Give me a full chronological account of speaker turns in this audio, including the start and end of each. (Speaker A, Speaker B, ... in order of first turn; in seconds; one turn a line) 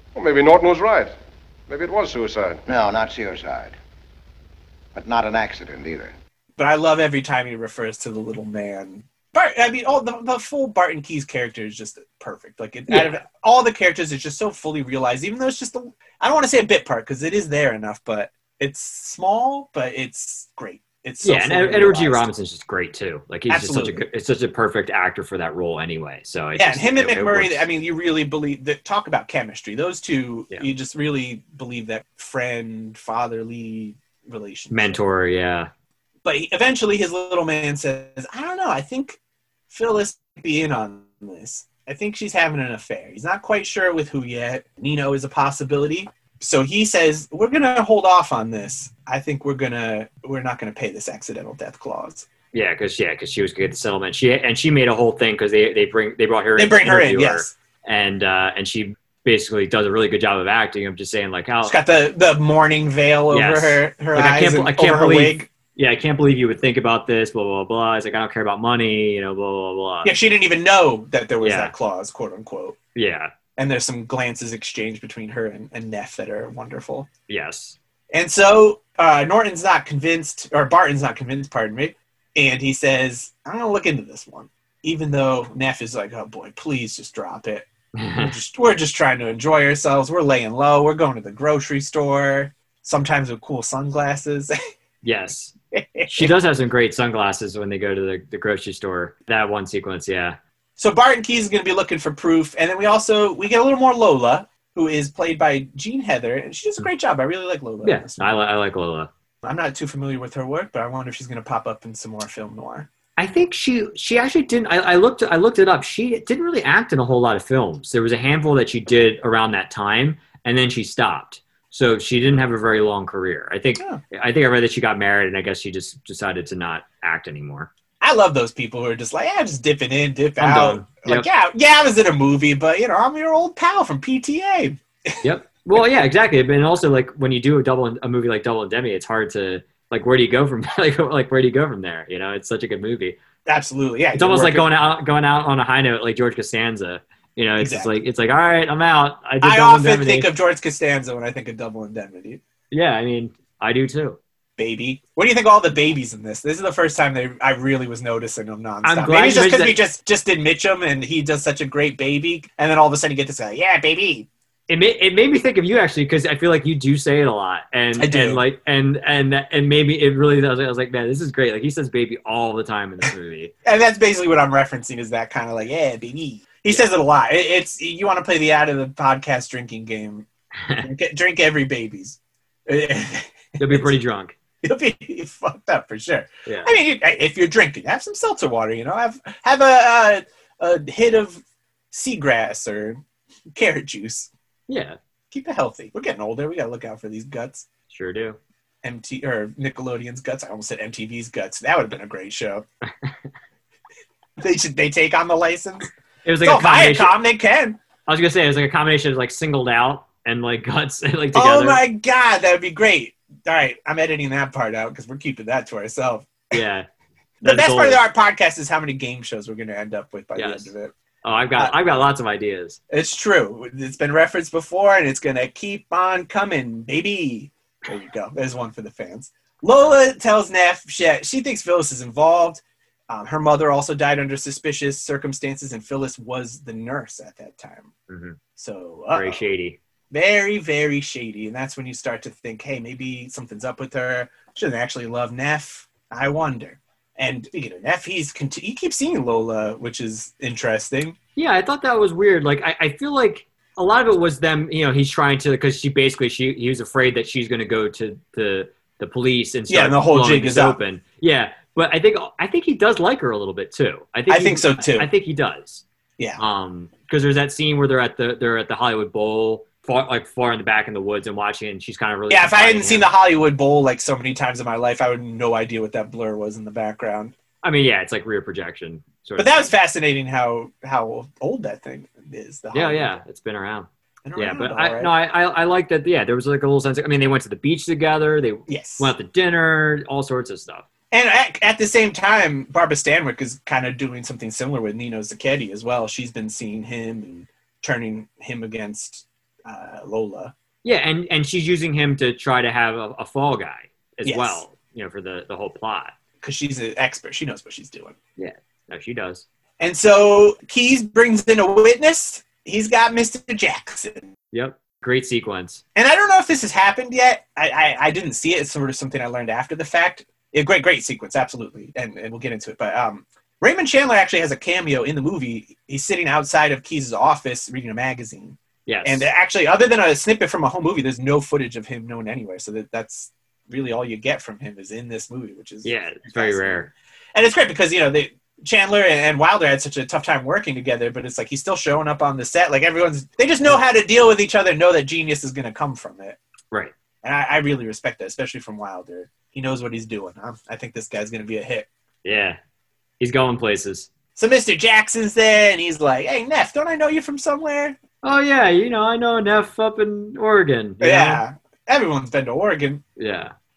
Speaker A: 0.2-1.1
Speaker A: 1.7-2.6
Speaker B: 2.7-3.8
Speaker B: 5.0-6.1
Speaker C: 6.6-22.3
Speaker D: 12.9-13.2
Speaker D: 21.2-27.7
Speaker C: 23.5-24.1
Speaker C: 26.6-35.0
Speaker D: 34.7-35.7
Speaker C: 36.2-39.2
Speaker C: 39.7-52.3
Speaker D: 52.5-61.8
Speaker C: 56.6-57.5
Speaker C: 61.6-65.5
Speaker D: 63.3-70.1
Speaker C: 70.0-72.8
Speaker D: 71.4-71.7
Speaker D: 73.0-73.3
Speaker C: 73.6-77.1
Speaker D: 77.3-77.8
Speaker C: 78.1-94.5
Speaker D: 88.0-88.4
Speaker D: 95.0-95.5
Speaker C: 95.7-96.3
Speaker D: 96.1-100.4
Speaker C: 100.8-108.2
Speaker D: 107.8-109.1
Speaker C: 109.4-112.9
Speaker D: 113.2-127.7
Speaker C: 128.0-135.2
Speaker D: 130.4-131.3
Speaker D: 135.2-143.2
Speaker C: 143.5-144.7
Speaker D: 144.2-150.3
Speaker C: 147.6-147.9
Speaker C: 149.4-152.4
Speaker D: 152.7-154.2
Speaker C: 154.6-164.3
Speaker D: 158.8-159.8
Speaker D: 164.7-173.5
Speaker C: 168.0-168.4
Speaker C: 173.7-180.3
Speaker C: 180.8-183.9
Speaker D: 183.6-184.3
Speaker C: 184.6-193.0
Speaker D: 186.5-186.7
Speaker C: 193.5-194.3
Speaker D: 194.7-195.0
Speaker C: 195.3-197.7
Speaker D: 197.9-198.4
Speaker C: 198.8-202.7
Speaker C: 204.4-205.9
Speaker D: 206.2-207.2
Speaker C: 206.4-207.8
Speaker D: 208.1-211.8
Speaker C: 211.3-216.6
Speaker D: 216.5-216.9
Speaker C: 217.4-220.9
Speaker D: 217.4-218.0
Speaker D: 220.4-220.7
Speaker D: 221.2-222.8
Speaker C: 222.9-237.9
Speaker D: 238.1-238.4
Speaker C: 238.6-239.4
Speaker D: 239.1-239.8
Speaker C: 240.1-251.2
Speaker D: 251.4-265.8
Speaker C: 259.7-260.8
Speaker C: 264.3-265.1
Speaker D: 266.4-273.1
Speaker C: 272.3-277.3
Speaker D: 277.6-279.7
Speaker C: 279.4-283.2
Speaker D: 282.7-290.9
Speaker C: 284.2-285.1
Speaker C: 288.7-289.1
Speaker C: 291.1-300.5
Speaker D: 300.8-306.1
Speaker C: 304.2-304.6
Speaker C: 306.4-308.2
Speaker D: 308.4-309.4
Speaker C: 309.8-314.3
Speaker D: 314.5-315.8
Speaker C: 316.0-346.4
Speaker D: 328.9-329.3
Speaker D: 335.8-336.9
Speaker C: 347.2-351.9
Speaker D: 352.2-352.6
Speaker D: 353.2-354.1
Speaker C: 354.4-358.0
Speaker D: 358.2-361.4
Speaker C: 361.0-363.0
Speaker D: 363.2-363.5